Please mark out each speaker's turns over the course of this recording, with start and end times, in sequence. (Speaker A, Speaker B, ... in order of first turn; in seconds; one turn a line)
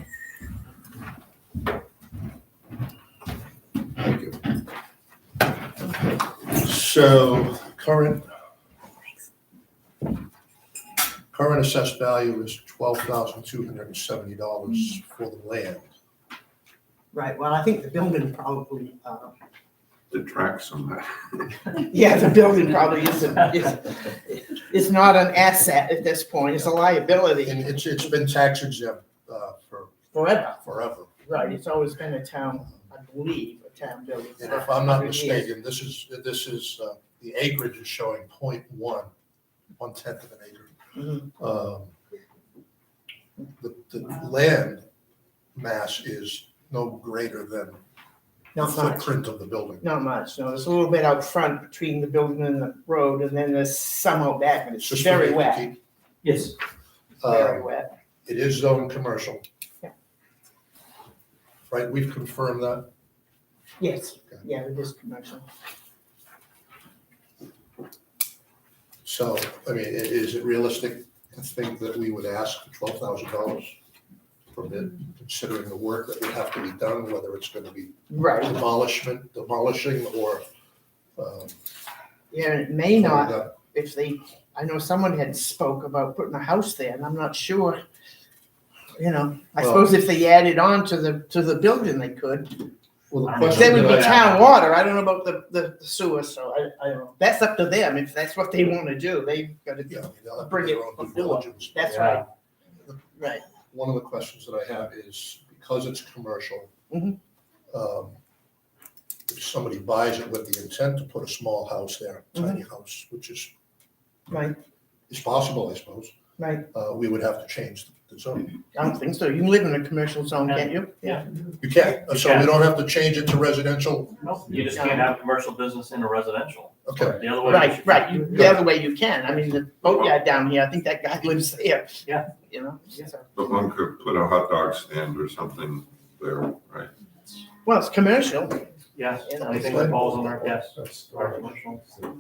Speaker A: 4.0-4.5
Speaker A: 6.5-8.3
Speaker A: 11.3-15.8
Speaker B: 17.1-19.3
Speaker C: 20.1-21.7
Speaker B: 21.8-27.7
Speaker A: 27.4-30.0
Speaker B: 30.1-30.6
Speaker A: 30.6-31.1
Speaker B: 31.2-35.5
Speaker A: 34.4-39.1
Speaker A: 39.8-40.7
Speaker B: 41.0-41.3
Speaker A: 41.4-41.9
Speaker A: 43.6-44.8
Speaker A: 45.5-47.8
Speaker B: 48.5-49.1
Speaker A: 48.6-49.8
Speaker B: 49.8-55.7
Speaker A: 54.8-55.8
Speaker D: 56.2-56.5
Speaker A: 57.2-57.7
Speaker B: 57.2-57.9
Speaker A: 58.2-59.4
Speaker A: 61.7-62.9
Speaker B: 63.8-65.5
Speaker A: 69.0-73.8
Speaker A: 74.5-80.5
Speaker B: 78.1-78.5
Speaker A: 81.2-81.5
Speaker B: 82.3-87.8
Speaker A: 83.0-83.5
Speaker B: 89.0-92.7
Speaker A: 89.6-89.9
Speaker A: 93.1-94.3
Speaker D: 93.2-94.4
Speaker B: 93.4-102.2
Speaker A: 99.9-102.1
Speaker D: 101.8-102.2
Speaker B: 103.2-103.5
Speaker A: 103.7-106.7
Speaker B: 106.9-107.2
Speaker A: 107.7-108.2
Speaker A: 109.3-113.5
Speaker B: 114.3-114.6
Speaker A: 115.1-116.1
Speaker B: 116.4-116.7
Speaker A: 116.7-118.5
Speaker B: 118.7-121.2
Speaker A: 121.6-124.6
Speaker D: 122.2-122.5
Speaker D: 124.2-128.6
Speaker B: 124.8-125.0
Speaker A: 126.9-127.7
Speaker B: 127.5-133.3
Speaker C: 133.3-136.9
Speaker B: 137.7-138.6
Speaker D: 138.9-142.0
Speaker B: 139.2-140.0
Speaker A: 139.4-141.3